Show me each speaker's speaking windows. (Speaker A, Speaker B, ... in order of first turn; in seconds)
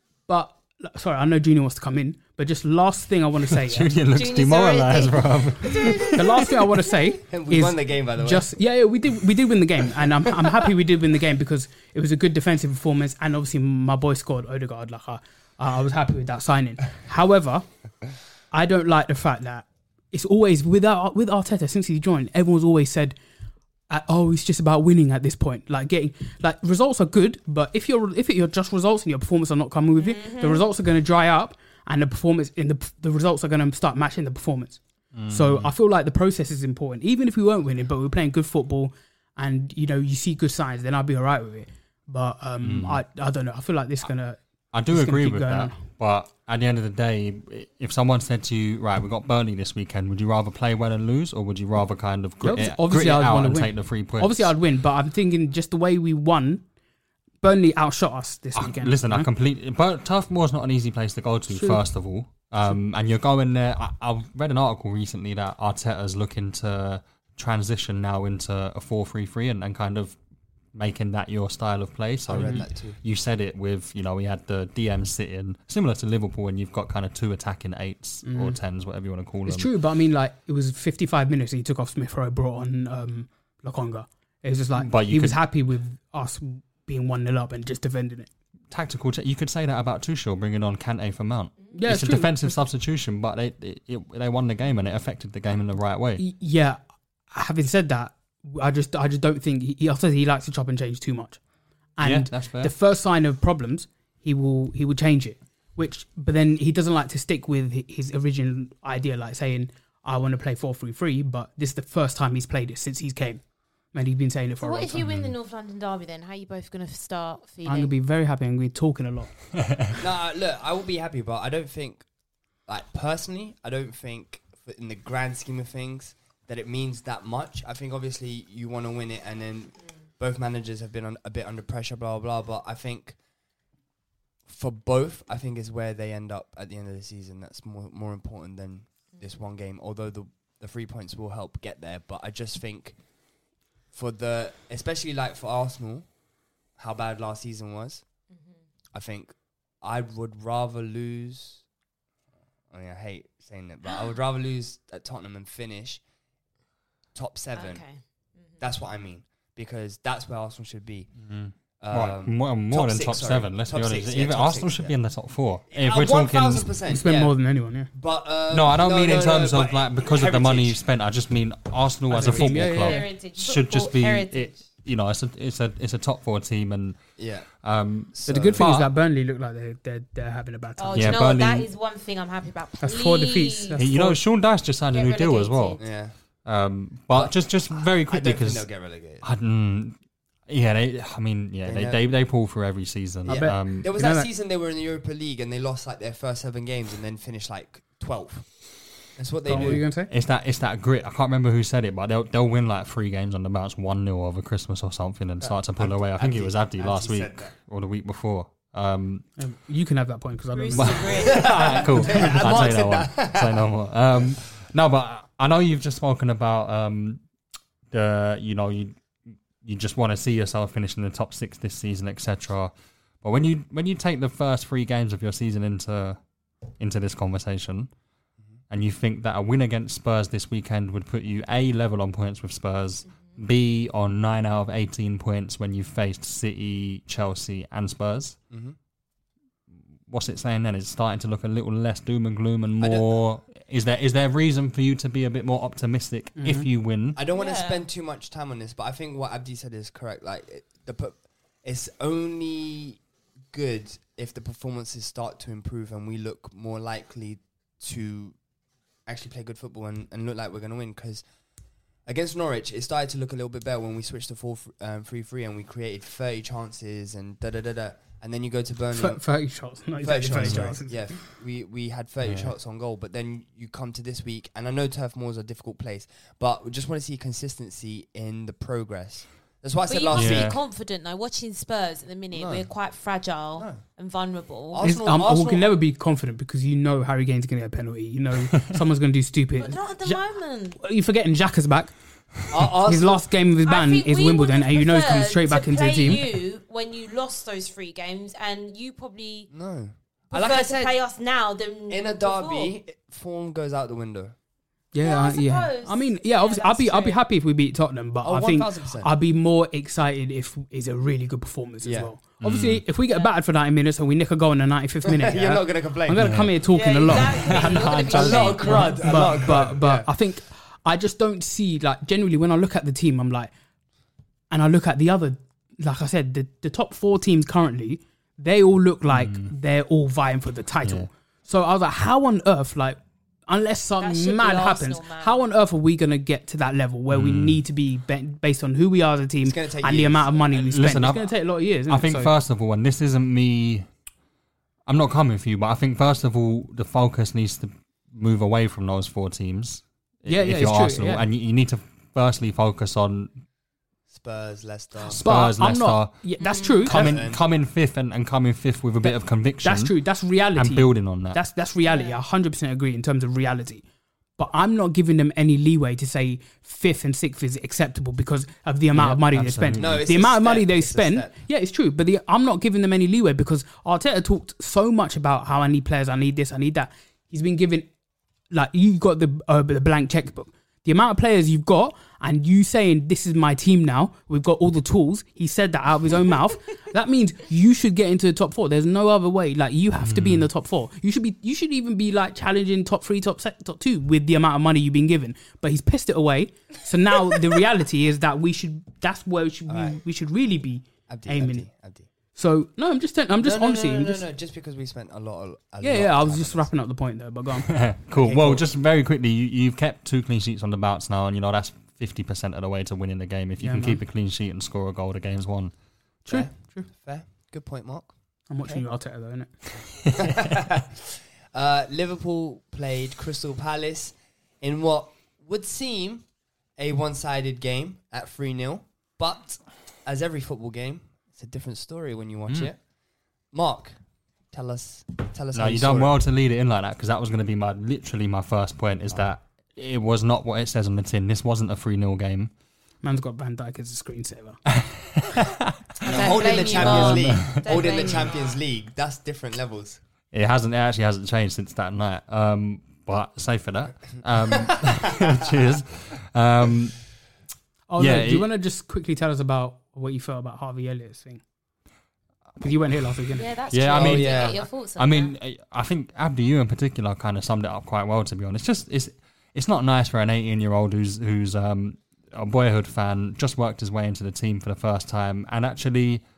Speaker A: 0.3-3.9, 6.1-17.6, 18.5-23.1, 23.9-44.4, 44.9-45.8, 52.4-56.6, 57.4-59.3, 61.5-61.8, 72.3-72.6, 78.2-78.6, 79.5-88.3, 91.7-92.5, 96.2-96.8, 97.3-101.4, 102.0-113.4, 113.9-115.0, 117.6-119.3, 166.9-167.9, 172.1-173.1, 178.2-181.2, 182.8-184.2, 193.3-194.3, 199.4-200.1, 209.4-212.6, 246.4-246.7, 268.9-271.0, 284.8-290.2, 290.8-291.9, 292.8-296.2, 304.9-323.5, 324.5-342.3, 350.3-351.2, 355.1-357.1, 359.0-363.8, 364.4-377.9, 378.5-401.7, 402.3-404.2, 405.8-407.7, 413.6-414.0, 416.2-416.9, 418.5-419.5, 443.0-444.6, 457.9-461.4, 462.6-463.5
Speaker B: 3.6-6.2, 35.1-35.7, 42.6-43.0, 44.7-54.5, 58.5-70.2, 70.7-79.7, 84.8-85.4, 88.7-96.2, 102.0-102.7, 115.0-115.3, 161.2-166.7, 168.5-177.0, 177.6-178.9, 180.9-181.7, 183.8-185.8, 186.4-188.7, 189.2-190.0, 190.5-193.9, 199.5-209.2, 210.7-217.2, 217.9-218.9, 219.6-226.2, 226.8-227.9, 228.7-238.3, 240.1-247.2, 270.3-270.7, 272.2-272.5, 280.1-280.6, 312.4-312.8, 316.2-318.4, 329.1-329.5, 337.1-337.6, 340.7-341.3, 341.9-343.9, 344.9-353.3, 355.1-356.2, 356.8-359.9, 360.6-361.4, 368.9-370.0, 390.0-390.5, 407.6-415.7, 435.5-442.5, 444.7-448.1, 450.3-457.0, 458.0-458.5, 463.7-476.2
Speaker C: 4.1-6.5, 30.0-30.6, 114.6-117.9, 148.3-148.6, 157.5-158.6, 172.4-174.6, 180.8-183.8, 184.9-185.8, 210.5-211.8, 247.3-247.8, 279.9-284.9, 289.6-290.8, 293.6-299.5, 300.3-302.7, 305.0-307.2, 313.1-313.3, 316.7-319.2, 334.0-335.4, 356.4-356.9, 361.8-362.2, 446.0-448.6, 463.3-465.3
Speaker D: 7.2-8.5, 72.2-73.0, 120.0-122.0, 122.7-133.2, 134.4-143.0, 143.9-146.1, 146.8-148.0, 148.9-151.6, 152.7-156.0, 157.1-157.8, 158.6-161.1, 161.8-164.9, 165.7-167.3, 167.9-170.8, 177.2-177.5, 178.1-178.6, 185.8-186.2, 187.1-189.2, 191.6-192.0, 193.2-198.5, 199.2-199.8, 205.4-207.5, 211.2-213.7, 238.5-238.8, 242.8-243.2, 247.1-253.0, 253.5-258.4, 259.1-261.2, 262.1-269.2, 270.0-280.5, 282.3-282.7, 283.6-283.8, 284.7-285.8, 292.5-293.2, 299.5-300.9, 301.9-304.3, 308.2-309.1, 311.8-312.1, 315.0-316.4, 317.8-320.1, 339.4-340.9, 354.1-355.2, 356.8-357.4, 369.8-371.3, 399.7-400.0, 401.1-402.1, 403.4-406.7, 408.2-408.6, 416.3-418.1, 420.1-426.2, 426.8-432.8, 433.5-434.0, 434.5-436.2, 446.0-450.0, 454.5-455.3, 463.9-464.6